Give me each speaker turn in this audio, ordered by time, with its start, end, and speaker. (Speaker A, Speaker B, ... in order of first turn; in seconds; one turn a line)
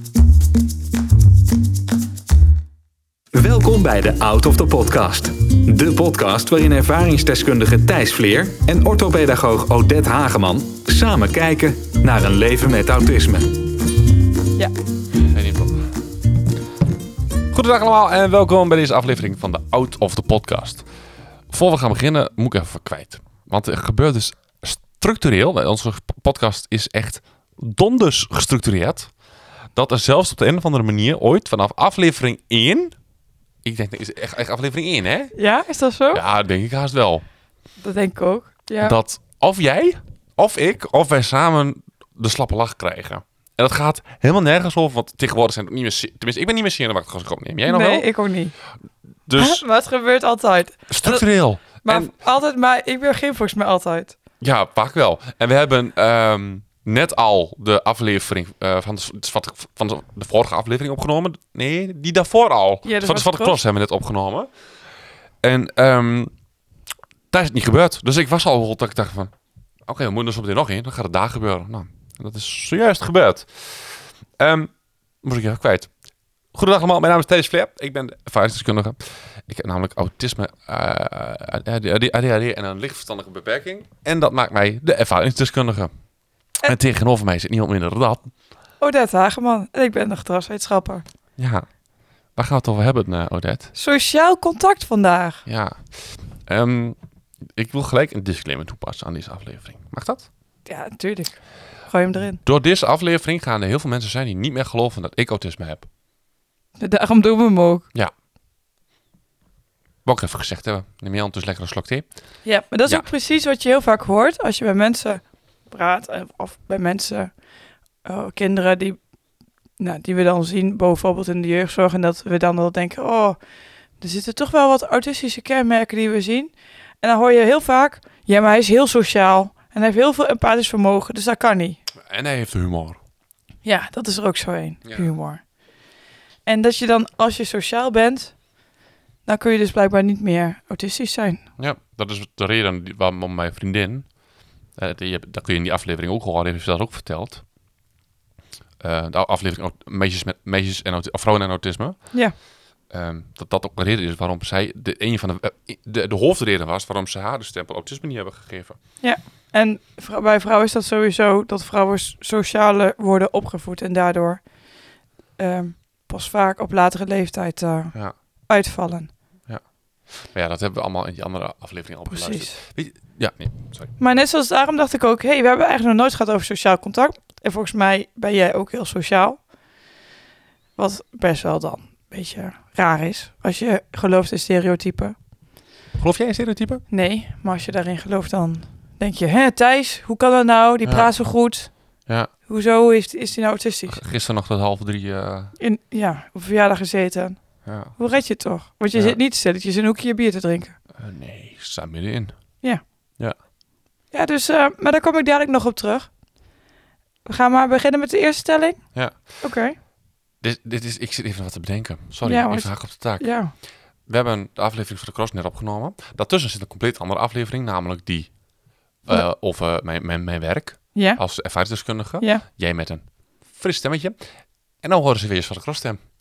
Speaker A: 3.3-13.6
Speaker B: 15.3-15.8
Speaker B: 17.5-20.8
Speaker B: 21.5-29.1
Speaker B: 29.8-32.9
Speaker B: 33.6-35.3
Speaker C: 35.4-36.2
Speaker B: 36.1-37.2
Speaker C: 37.8-39.0
Speaker B: 38.8-48.1
Speaker C: 47.7-48.5
Speaker B: 49.3-49.6
Speaker C: 49.4-51.3
Speaker B: 50.9-52.1
Speaker C: 51.8-54.2
Speaker B: 54.4-64.5
Speaker C: 62.9-63.6
Speaker B: 65.4-66.3
Speaker B: 67.3-69.3
Speaker B: 69.9-74.7
Speaker B: 75.2-75.9
Speaker B: 76.5-85.9
Speaker B: 86.6-88.3
Speaker C: 88.8-91.0
Speaker B: 91.4-91.7
Speaker B: 92.4-93.7
Speaker C: 93.7-95.4
Speaker B: 95.5-97.0
Speaker B: 97.6-100.3
Speaker C: 100.7-102.4
Speaker B: 102.4-105.9
Speaker C: 106.8-107.9
Speaker B: 110.0-112.1
Speaker C: 112.5-117.3
Speaker C: 118.0-119.0
Speaker C: 119.8-123.4
Speaker C: 124.0-131.8
Speaker B: 132.0-133.0
Speaker C: 133.6-135.4
Speaker C: 136.5-138.4
Speaker C: 139.3-141.4
Speaker B: 141.6-144.1
Speaker B: 144.8-147.4
Speaker B: 148.8-152.1
Speaker B: 152.9-158.8
Speaker C: 159.0-164.4
Speaker C: 165.4-167.9
Speaker C: 168.5-169.1
Speaker B: 170.2-173.9
Speaker C: 172.1-172.6
Speaker C: 174.0-179.4
Speaker C: 180.8-185.2
Speaker B: 186.0-186.8
Speaker C: 186.9-191.7
Speaker B: 190.8-191.3
Speaker C: 192.5-194.0
Speaker B: 193.9-195.6
Speaker C: 195.6-197.4
Speaker B: 197.7-197.9
Speaker C: 197.9-200.8
Speaker B: 198.9-199.2
Speaker B: 201.0-202.3
Speaker C: 204.1-206.1
Speaker C: 207.2-208.8
Speaker B: 208.9-209.2
Speaker C: 209.4-209.8
Speaker B: 210.4-213.3
Speaker C: 212.2-213.5
Speaker B: 214.1-218.3
Speaker B: 219.1-224.2
Speaker C: 220.9-221.2
Speaker B: 224.8-226.0